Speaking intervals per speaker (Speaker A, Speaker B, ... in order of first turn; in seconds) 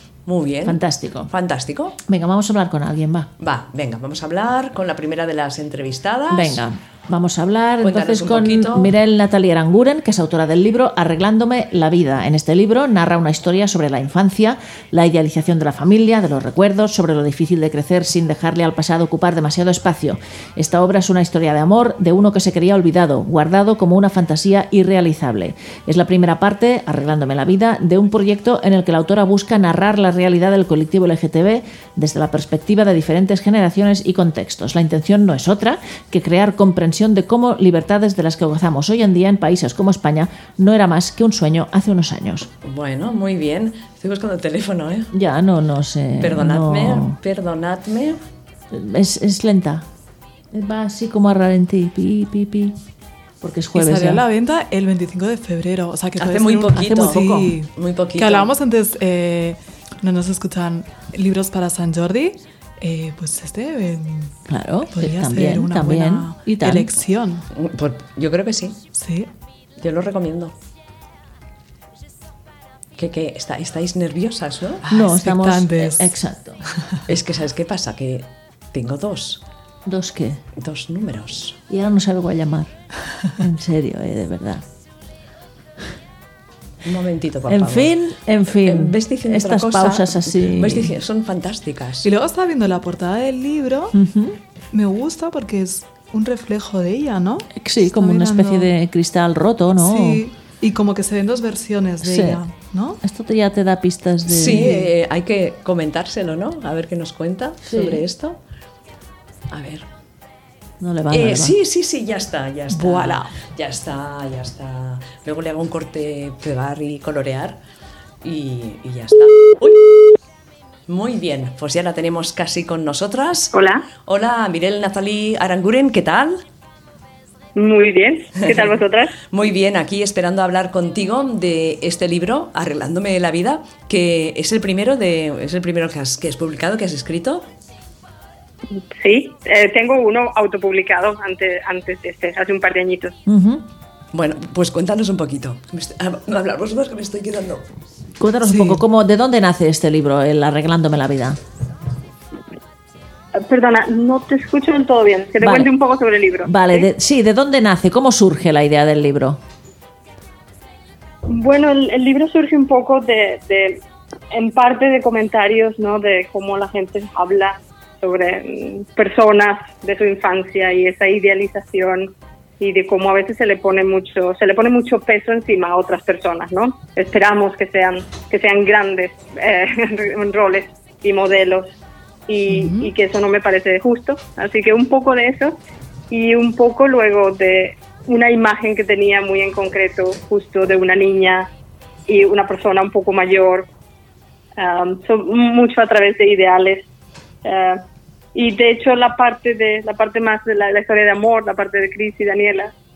Speaker A: 0.2-2.0, 3.4-6.6, 7.8-8.9, 42.6-45.1, 46.2-48.2, 56.2-58.5, 67.5-68.8, 69.8-70.5, 73.0-74.8, 77.1-79.4, 80.5-81.6, 86.8-87.9, 88.6-92.1, 104.3-108.4, 109.5-109.8, 111.1-117.6, 118.2-120.1, 120.9-123.5, 124.0-126.4, 128.4-137.5, 144.1-147.7
Speaker B: 0.6-1.3, 2.1-3.3, 6.3-42.5, 45.1-47.2, 48.7-49.9, 50.5-52.8, 53.4-54.2, 56.8-57.5, 64.5-66.9, 74.9-76.6, 79.8-80.4, 81.7-82.7, 83.4-84.6, 87.5-90.9, 93.9-94.4, 97.5-100.2, 102.0-102.4, 103.0-104.8, 107.6-108.0, 110.8-111.6, 143.2-143.6, 148.2-151.4, 155.4-155.7, 156.4-159.4
Speaker C: 53.7-64.3, 64.9-67.4, 68.9-69.3, 74.8-76.1, 92.0-94.0, 94.7-98.7, 99.8-103.0, 104.6-104.9, 112.7-113.3, 148.4-148.8, 182.5-182.9
Speaker D: 123.5-123.8, 127.5-129.1, 138.9-143.2, 153.3-156.9, 161.3-163.8, 164.3-181.7, 182.3-185.6, 186.1-191.5, 192.1-193.7, 194.6-196.9, 197.4-197.8, 198.3-202.7